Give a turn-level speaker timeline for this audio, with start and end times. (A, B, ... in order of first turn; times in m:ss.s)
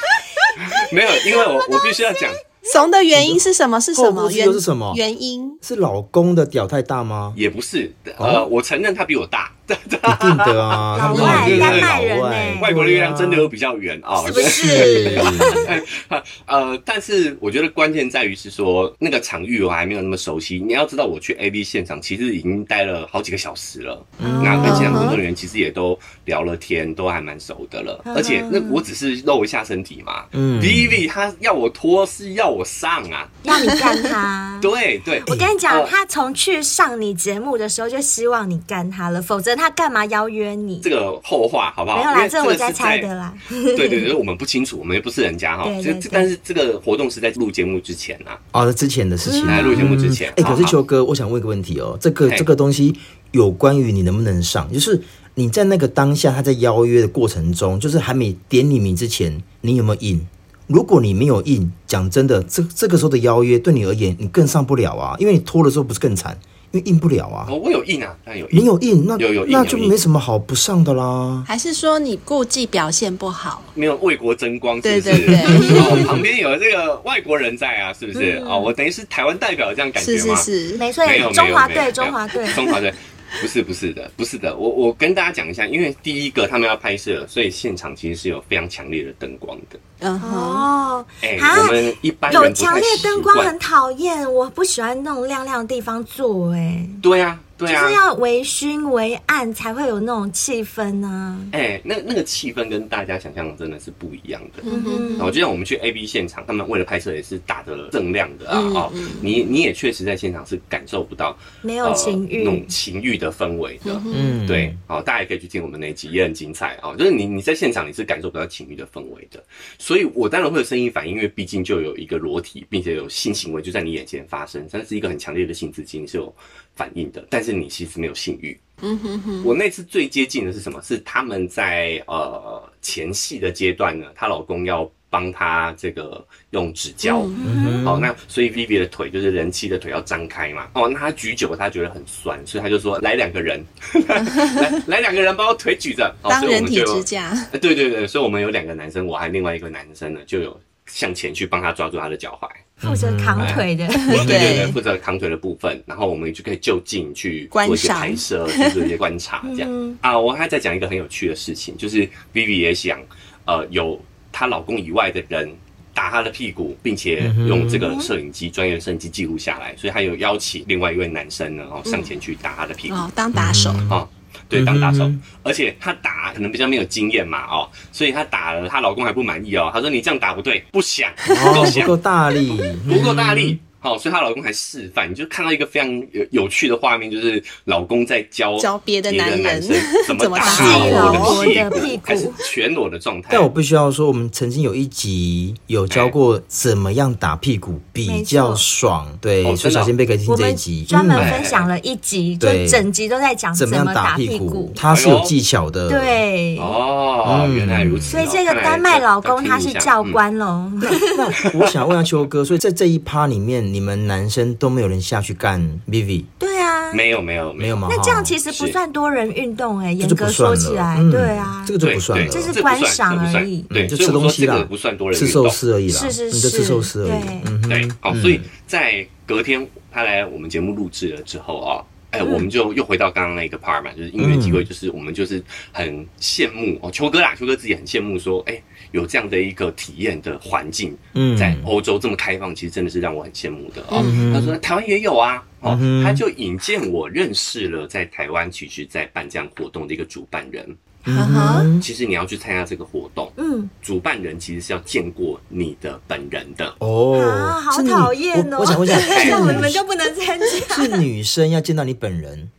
0:00.6-0:02.4 A
0:01.2-0:02.4 B
0:02.6-0:05.6 C
0:03.1-0:03.4 D
0:04.0-0:05.0 D
0:05.6-0:07.4 D
0:07.3-0:12.0 A
0:08.2-0:08.5 D
0:10.1-0:13.5 D
0:11.0-0:12.7 B
0:12.6-0:33.4 A
0:14.2-0:15.7 B
0:14.4-0:15.7 D
0:24.2-0:25.0 D
0:24.2-0:25.1 B
0:24.6-0:25.2 C
0:28.1-0:28.8 B
0:30.3-0:31.0 D
0:33.4-0:34.7 B
0:34.6-0:35.9 A
0:35.2-0:40.9 B
0:40.8-0:43.1 A
0:41.9-0:44.1 B
0:43.7-0:48.4 A
0:45.6-0:46.3 B
0:48.5-1:07.5 D
0:49.2-0:50.7 B
0:49.5-0:50.8 A
1:07.5-1:10.0 A
1:08.5-1:11.5 D
1:11.5-1:13.7 C
1:13.8-1:20.5 A
1:14.8-1:16.1 C
1:15.8-1:16.1 D
1:18.2-1:18.7 B
1:20.0-1:20.9 C
1:20.8-1:22.6 B
1:21.0-1:29.8 A
1:30.0-1:30.7 C
1:30.2-1:37.0 B
1:31.2-1:33.5 A
1:37.0-1:38.0 A
1:37.6-1:41.5 B
1:41.5-2:08.6 A
1:44.6-1:45.3 C
1:44.7-1:45.4 B
1:48.5-1:49.3 C
1:51.6-1:52.7 B
1:53.8-1:54.4 C
1:54.1-1:54.8 D
2:08.8-2:09.5 C
2:09.4-2:17.3 A
2:17.0-2:17.4 C
2:17.4-2:17.8 B
2:17.4-2:18.1 D
2:17.8-2:32.8 A
2:24.2-2:24.7 C
2:26.3-2:27.5 C
2:32.8-2:33.6 D
2:32.8-2:34.5 B
2:33.4-2:53.0 A
2:34.0-2:34.8 C
2:37.5-2:38.7 C
2:39.4-2:40.0 B
2:47.2-2:47.9 D
2:47.8-2:48.1 B
2:52.9-2:53.8 C
2:53.3-2:54.0 D
2:53.9-3:02.0 A
2:54.5-2:55.2 D
3:01.2-3:01.9 C
3:01.3-3:03.6 D
3:02.9-3:13.5 A
3:08.6-3:11.8 C
3:10.4-3:12.4 B
3:10.5-3:11.4 D
3:13.3-3:21.4 D
3:15.9-3:16.2 A
3:18.0-3:18.6 B
3:19.4-3:19.9 A
3:20.3-3:24.8 B
3:21.2-3:21.7 A
3:22.4-3:22.8 D
3:23.5-3:26.2 D
3:24.9-3:25.3 A
3:25.9-3:26.8 B
3:26.6-3:30.2 A
3:27.2-3:28.3 D
3:28.1-3:31.1 B
3:30.8-3:36.3 D
3:31.4-3:32.0 A
3:36.4-3:37.0 B
3:36.9-3:37.9 A
3:37.6-3:38.4 D
3:37.9-3:43.7 B
3:38.5-3:38.8 A
3:40.0-3:42.6 D
3:41.8-3:45.6 A
3:43.7-3:48.5 D
3:45.9-3:47.5 B
3:47.7-4:10.8 A
3:52.2-3:52.5 B
3:54.2-3:54.7 D
4:01.2-4:01.7 D
4:03.9-4:04.2 C
4:03.9-4:04.6 D
4:05.6-4:06.2 D
4:11.1-4:11.9 D
4:11.1-4:11.7 C
4:11.2-4:11.6 B
4:11.8-4:16.8 A
4:13.4-4:13.7 B
4:16.8-4:19.8 D
4:17.1-4:21.0 B
4:19.1-4:19.6 A
4:20.7-4:22.5 D